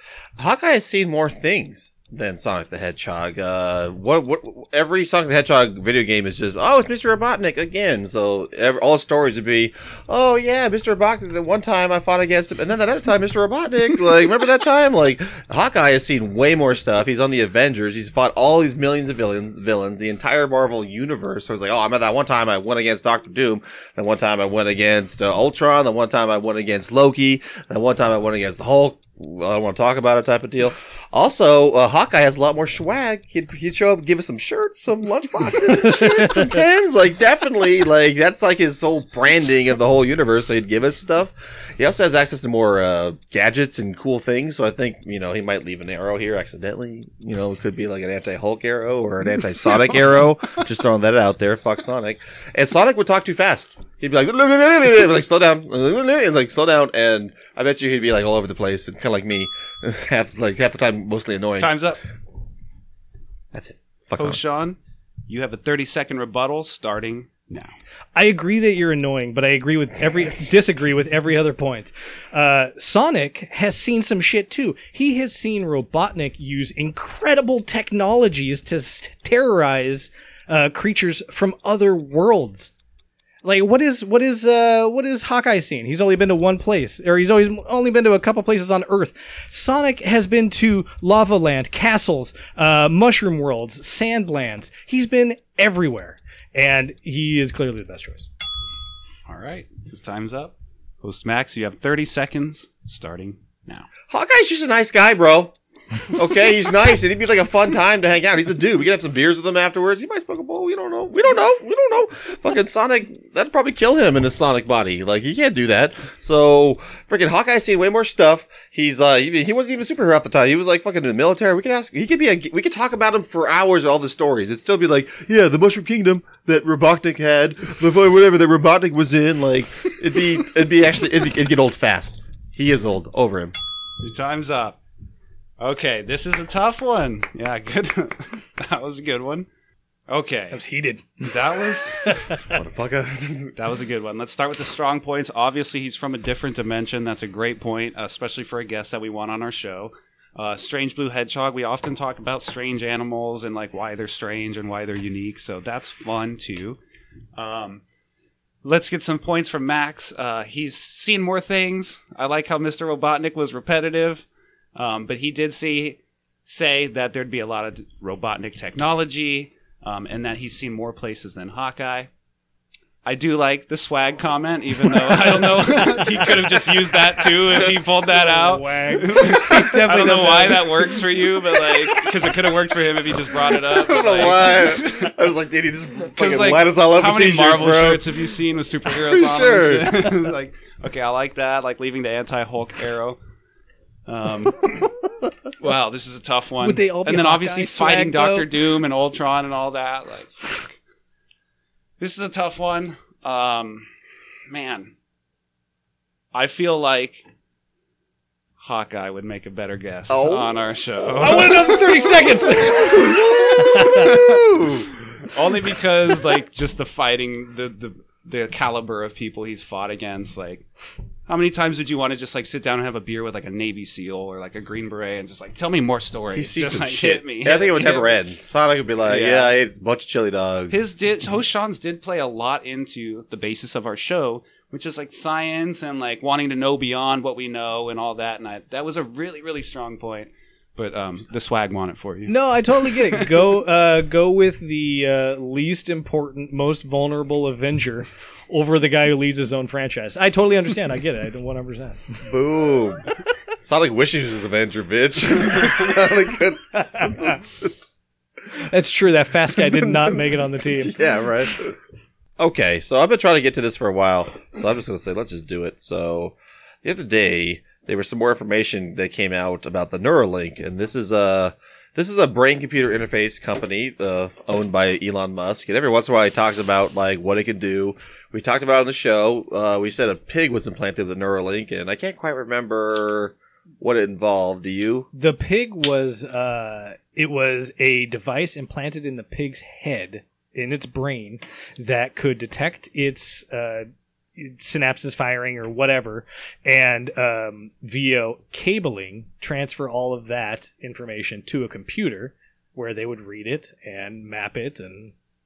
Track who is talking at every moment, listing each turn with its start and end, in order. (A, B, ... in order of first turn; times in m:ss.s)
0:00.4-1:01.7 A
0:36.0-0:36.2 B
1:01.6-1:02.0 C
1:03.5-1:04.4 A
1:04.2-1:07.7 C
1:08.2-1:22.7 B
1:23.4-1:38.3 B
1:39.3-1:43.9 C
1:44.1-1:45.5 A
1:46.1-2:13.5 A
2:14.0-2:14.8 C
2:15.6-2:19.5 C
2:20.1-2:20.6 C
2:20.5-2:22.5 B
2:21.2-2:22.4 C
2:22.5-2:23.5 A
2:23.6-2:36.8 C
2:37.4-2:37.8 C
2:38.6-2:52.1 C
2:53.0-3:05.1 C
2:55.8-2:56.2 B
2:57.6-3:01.0 B
3:03.6-3:08.2 A
3:06.2-3:13.2 C
3:08.8-3:10.1 A
3:14.1-3:14.9 C
3:15.6-3:20.8 C
3:16.6-3:18.5 B
3:22.0-3:23.9 C
3:24.5-3:24.9 C
3:26.3-3:27.2 C
3:28.6-3:31.9 C
3:30.1-3:30.6 A
3:31.2-3:34.2 B
3:32.8-3:34.9 A
3:34.1-3:34.4 C
3:35.2-3:40.7 C
3:41.3-3:48.2 C
3:46.3-3:50.8 A
3:49.1-3:49.6 C
3:50.7-4:03.5 C
4:02.3-4:12.1 B
4:12.3-4:13.1 A
4:13.6-4:17.8 A
4:18.6-4:21.0 B
4:19.6-4:21.8 A
4:22.4-4:45.1 A
4:45.1-5:05.1 B